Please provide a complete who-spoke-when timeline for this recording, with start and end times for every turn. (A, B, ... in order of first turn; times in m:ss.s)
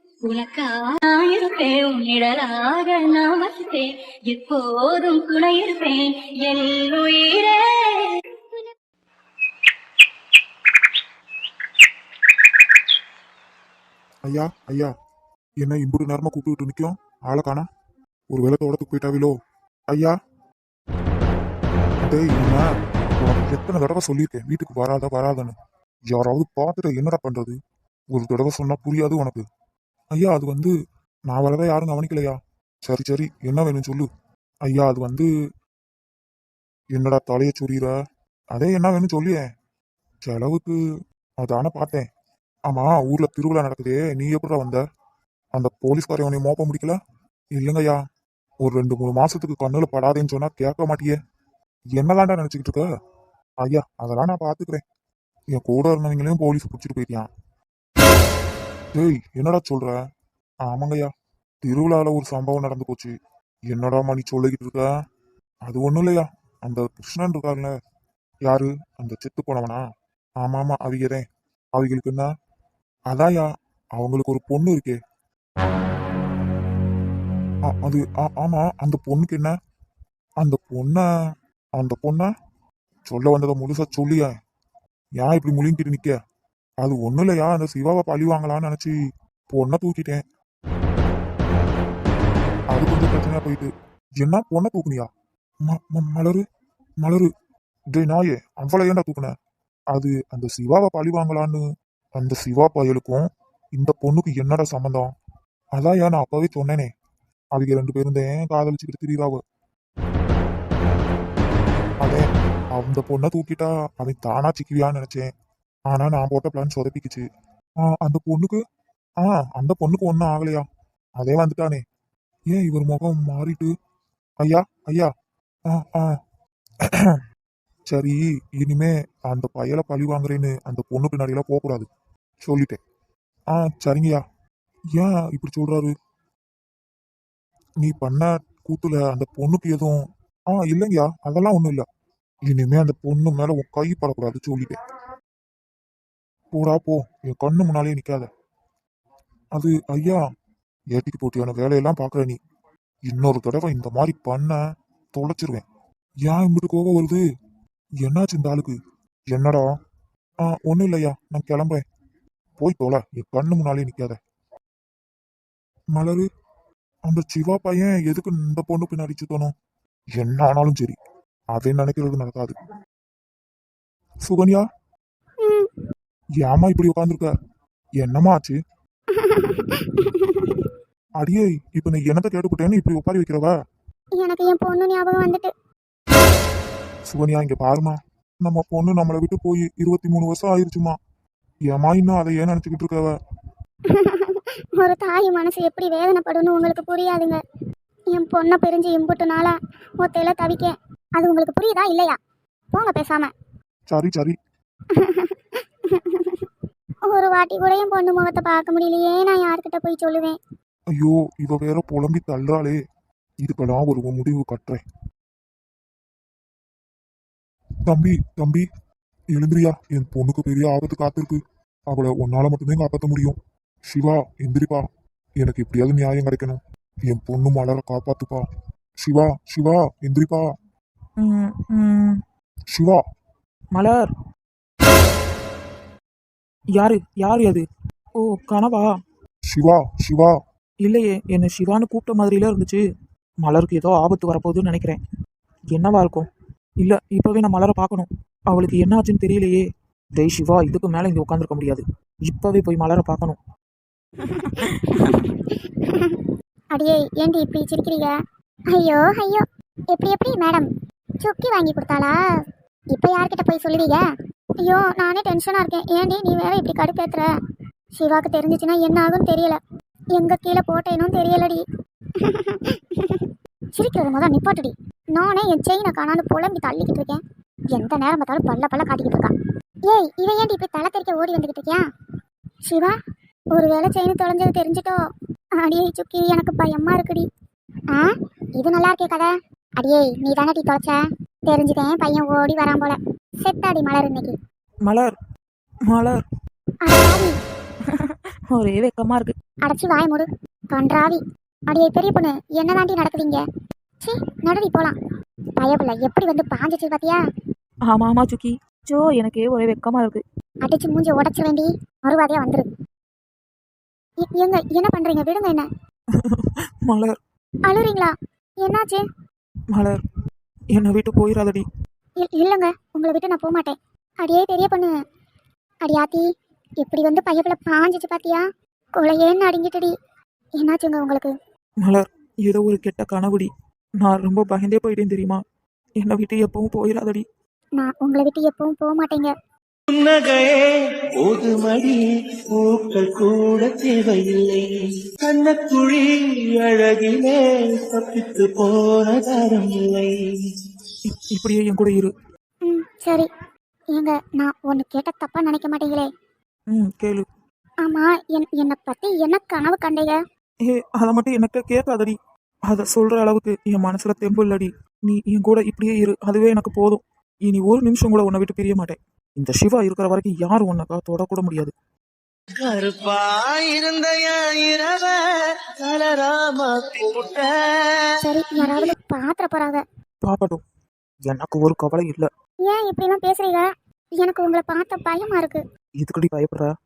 0:00.2-0:08.6 A
0:14.2-0:14.9 B
0:15.6-0:17.7 B
0:18.3-0:19.4 B
0:22.0-0:22.7 B
0:23.2-0:25.5 B
0:26.1-0:27.6 B
0:28.1-0:29.4 B
0:30.1-0:30.7 B
0:31.3-0:34.1 B
0:34.6-0:35.3 B
0:36.9-0:37.9 B
0:38.5-0:39.4 B
0:40.2-0:40.8 B
0:41.4-0:42.1 B
0:42.7-0:44.8 B
0:45.6-0:47.0 B
0:47.6-0:48.0 B
0:48.6-0:51.2 B
0:52.0-0:52.9 B
0:53.6-0:54.8 B
0:55.5-0:57.3 B
0:58.9-1:00.0 B
1:00.6-1:01.1 B
1:01.6-1:03.1 B
1:03.7-1:04.9 B
1:05.6-1:07.7 B
1:08.4-1:09.8 B
1:10.4-1:12.3 B
1:13.1-1:15.0 B
1:17.7-1:19.6 B
1:20.4-1:21.1 B
1:21.8-1:22.3 B
1:23.1-1:24.3 B
1:25.2-1:26.2 B
1:26.8-1:29.0 B
1:29.5-1:30.2 B
1:32.7-1:35.1 B
1:35.6-1:36.4 B
1:37.0-1:37.3 B
1:37.9-1:39.3 B
1:39.9-1:41.6 B
1:42.2-1:45.1 B
1:45.8-1:46.9 B
1:47.5-1:49.4 B
1:52.0-1:55.3 B
1:55.9-1:57.2 B
1:57.8-1:58.6 B
1:59.2-2:00.6 B
2:01.2-2:01.8 B
2:02.5-2:03.7 B
2:04.4-2:05.1 B
2:05.7-2:06.2 B
2:06.8-2:07.2 B
2:07.9-2:11.9 B
2:12.4-2:12.8 B
2:13.5-2:14.2 B
2:14.9-2:15.9 B
2:17.8-2:21.9 B
2:22.5-2:24.8 B
2:26.5-2:28.3 B
2:29.5-2:30.2 B
2:30.9-2:32.4 B
2:33.1-2:34.6 B
2:35.1-2:35.6 B
2:36.2-2:37.2 B
2:38.0-2:38.8 B
2:39.3-2:39.7 B
2:40.4-2:41.8 B
2:42.6-2:44.2 B
2:45.9-2:46.3 B
2:47.1-2:49.5 B
2:50.2-2:51.0 B
2:51.5-2:52.5 B
2:54.2-2:54.6 B
2:55.4-2:55.7 C
2:56.4-2:57.3 B
2:58.0-2:58.6 B
2:59.1-3:00.7 C
3:01.2-3:03.5 B
3:04.2-3:05.5 C
3:07.1-3:11.0 B
3:11.7-3:13.2 B
3:13.9-3:17.4 C
3:18.1-3:22.2 C
3:22.7-3:23.3 C
3:23.9-3:24.4 B
3:24.9-3:26.5 C
3:27.1-3:30.4 C
3:30.9-3:32.8 B
3:33.4-3:34.8 B
3:37.9-3:38.6 B
3:39.3-3:43.4 B
3:43.9-3:44.8 B
3:45.4-3:48.5 B
3:49.0-3:50.5 B
3:51.2-3:52.2 D
3:52.7-3:53.0 B
3:53.7-3:54.0 D
3:56.8-3:57.6 D
3:58.2-3:58.9 D
3:59.5-4:00.4 B
4:00.8-4:02.8 D
4:03.4-4:05.0 D
4:05.7-4:06.2 D
4:06.8-4:09.6 D
4:10.2-4:13.4 D
4:14.2-4:18.1 C
4:14.9-4:15.2 D
4:18.7-4:20.7 C
4:21.2-4:22.2 C
4:22.9-4:24.0 C
4:24.6-4:27.3 C
4:28.0-4:29.6 C
4:30.1-4:31.6 C
4:32.2-4:37.2 C
4:37.7-4:39.3 C
4:39.9-4:41.8 C
4:42.7-4:43.0 C
4:43.5-4:45.0 C
4:45.6-4:47.3 C
4:47.9-4:54.3 C
4:54.9-4:55.1 D
4:55.9-4:56.2 D
4:56.8-4:57.4 C
4:57.8-4:59.4 D
4:59.6-5:03.4 C
5:04.0-5:05.0 C
5:05.6-5:07.2 C
5:07.9-5:10.2 D
5:10.6-5:12.7 C
5:14.3-5:15.7 C
5:16.2-5:17.1 D
5:17.7-5:19.0 C
5:20.7-5:21.6 D
5:22.2-5:24.9 C
5:25.8-5:26.3 C
5:26.8-5:28.4 C
5:29.0-5:29.9 C
5:30.6-5:31.3 C
5:31.9-5:33.5 D
5:34.0-5:35.4 D
5:36.0-5:37.2 D
5:37.8-5:39.3 C
5:40.0-5:40.5 E
5:41.2-5:44.6 E
5:45.3-5:47.4 E
5:47.9-5:50.1 E
5:51.0-5:52.1 D
5:52.6-5:53.3 C
5:53.9-5:56.1 C
5:56.7-5:57.2 D
5:57.8-6:00.2 C
6:00.7-6:02.2 D
6:02.7-6:11.7 D
6:12.6-6:15.1 E
6:15.8-6:17.5 E
6:18.2-6:19.8 C
6:20.2-6:20.6 D
6:21.3-6:22.3 D
6:22.7-6:23.7 C
6:24.2-6:25.6 C
6:26.0-6:26.7 D